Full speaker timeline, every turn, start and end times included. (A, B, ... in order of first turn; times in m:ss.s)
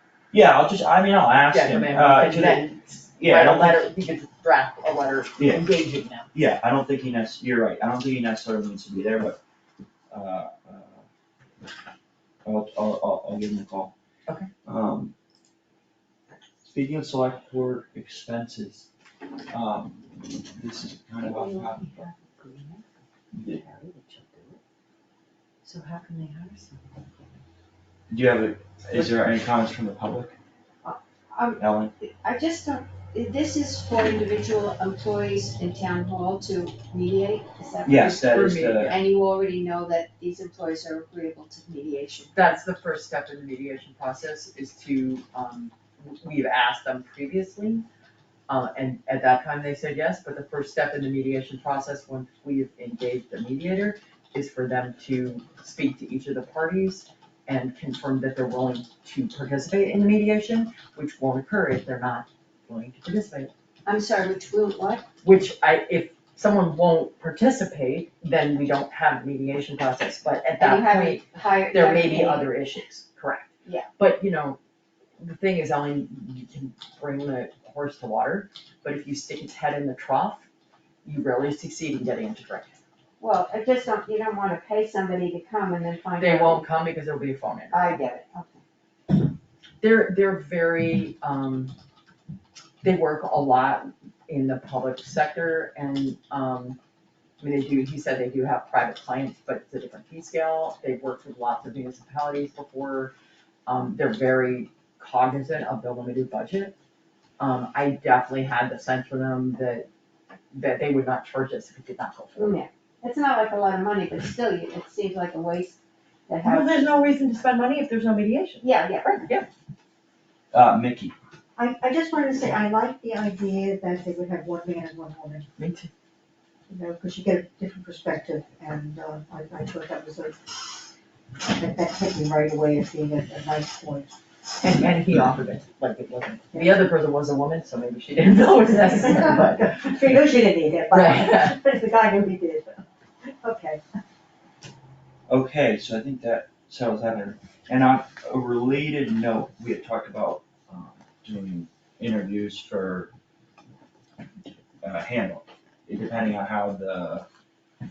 0:00.3-0:03.9 A
0:01.5-0:06.3 B
0:05.4-0:05.7 A
0:06.3-0:09.4 A
0:10.1-0:11.0 A
0:12.4-0:13.9 A
0:14.6-0:15.1 A
0:16.6-0:18.9 A
0:19.5-0:22.0 A
0:23.3-0:23.6 A
0:23.5-0:24.6 B
0:25.6-0:27.0 B
0:28.1-0:30.4 A
0:30.8-0:42.3 C
0:31.6-0:31.9 A
0:37.9-0:39.0 A
0:38.2-0:39.0 B
0:42.3-0:47.8 B
0:48.5-1:03.5 B
1:03.9-1:05.1 C
1:05.2-1:14.6 B
1:10.6-1:12.5 C
1:15.2-1:20.5 B
1:21.0-1:22.8 B
1:23.2-1:26.6 C
1:26.2-1:28.0 B
1:27.7-1:28.6 C
1:29.8-1:31.7 B
1:32.8-1:36.8 B
1:37.4-1:43.1 B
1:43.7-1:46.8 B
1:47.4-1:49.9 B
1:50.5-1:52.6 B
1:52.4-1:56.8 C
1:56.4-1:59.5 B
1:58.6-1:59.2 C
2:00.5-2:01.2 A
2:01.6-2:05.5 D
2:05.6-2:05.9 B
2:06.7-2:10.4 D
2:11.5-2:14.1 D
2:14.6-2:19.9 B
2:19.0-2:22.8 D
2:20.9-2:21.6 B
2:23.4-2:23.8 D
2:25.3-2:33.1 A
2:34.8-2:37.3 A